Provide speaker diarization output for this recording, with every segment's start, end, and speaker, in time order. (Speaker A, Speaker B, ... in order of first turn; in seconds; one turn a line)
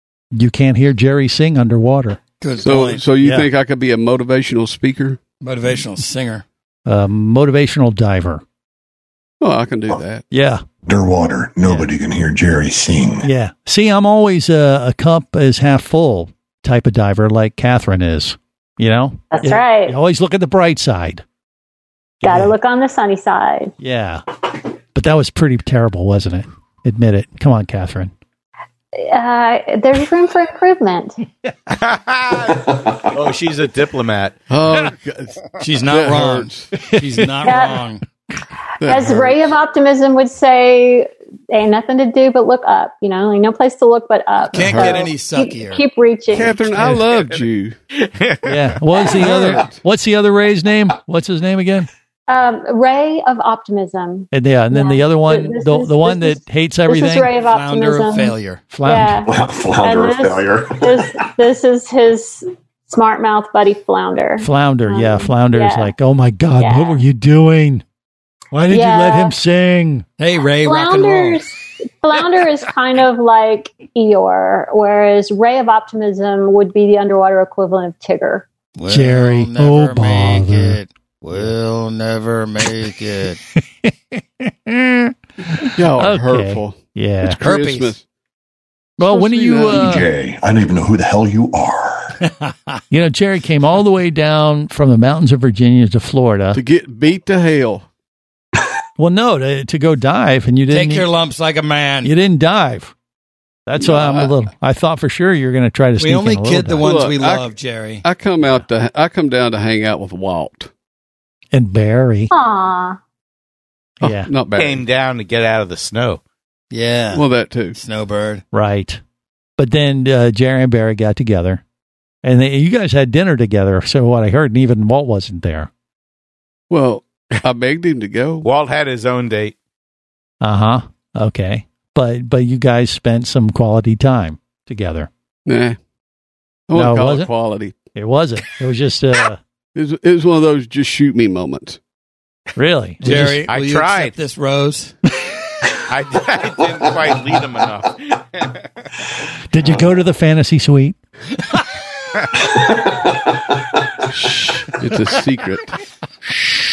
Speaker A: 0.3-2.2
Speaker B: 2.4-3.0
Speaker C: 2.6-5.2
Speaker A: 3.2-3.5
Speaker B: 5.4-6.4
Speaker A: 6.8-8.4
Speaker C: 9.4-10.2
Speaker A: 10.3-10.6
Speaker D: 10.8-13.3
Speaker A: 13.2-21.2
Speaker E: 19.3-19.9
Speaker A: 22.2-22.5
Speaker E: 22.2-23.7
Speaker A: 23.8-24.2
Speaker A: 24.9-28.1
Speaker E: 28.9-31.2
Speaker F: 31.7-34.4
Speaker C: 34.5-36.7
Speaker B: 35.6-38.0
Speaker E: 37.4-37.8
Speaker C: 38.8-39.5
Speaker E: 38.8-46.6
Speaker B: 44.5-45.8
Speaker A: 44.7-44.9
Speaker C: 46.3-47.7
Speaker F: 48.0-48.8
Speaker A: 48.4-51.9
Speaker C: 49.2-49.8
Speaker E: 52.3-65.9
Speaker A: 54.3-57.4
Speaker B: 57.3-58.7
Speaker A: 58.7-59.2
Speaker D: 59.2-61.1
Speaker A: 64.4-67.8
Speaker E: 66.6-67.0
Speaker A: 68.5-70.0
Speaker E: 68.7-69.3
Speaker B: 70.2-71.4
Speaker E: 70.6-78.5
Speaker B: 78.7-83.4
Speaker A: 78.9-80.8
Speaker A: 83.8-87.4
Speaker C: 85.6-88.0
Speaker B: 87.3-88.0
Speaker A: 89.0-90.1
Speaker C: 89.4-89.7
Speaker D: 89.7-92.2
Speaker B: 92.5-92.8
Speaker A: 92.9-96.6
Speaker C: 96.5-97.8
Speaker A: 99.0-101.1
Speaker B: 100.7-102.1
Speaker A: 102.0-102.9
Speaker A: 103.7-106.8
Speaker C: 103.8-104.3
Speaker B: 106.0-108.0
Speaker C: 106.8-110.7
Speaker A: 111.5-112.3
Speaker E: 112.3-113.0
Speaker C: 114.0-114.8
Speaker A: 114.0-114.3
Speaker F: 114.5-116.2
Speaker B: 116.7-118.4
Speaker C: 117.1-117.8
Speaker A: 118.5-119.0
Speaker A: 119.6-121.6
Speaker A: 122.2-125.7
Speaker C: 126.7-128.5
Speaker F: 128.4-129.5
Speaker A: 130.4-135.1
Speaker C: 135.4-135.8
Speaker C: 136.7-137.7
Speaker A: 136.7-137.3
Speaker A: 137.9-139.4
Speaker C: 139.7-141.8
Speaker A: 142.6-143.4
Speaker B: 143.0-144.9
Speaker F: 143.4-144.2
Speaker F: 145.9-148.6
Speaker A: 149.5-151.0
Speaker C: 154.1-155.8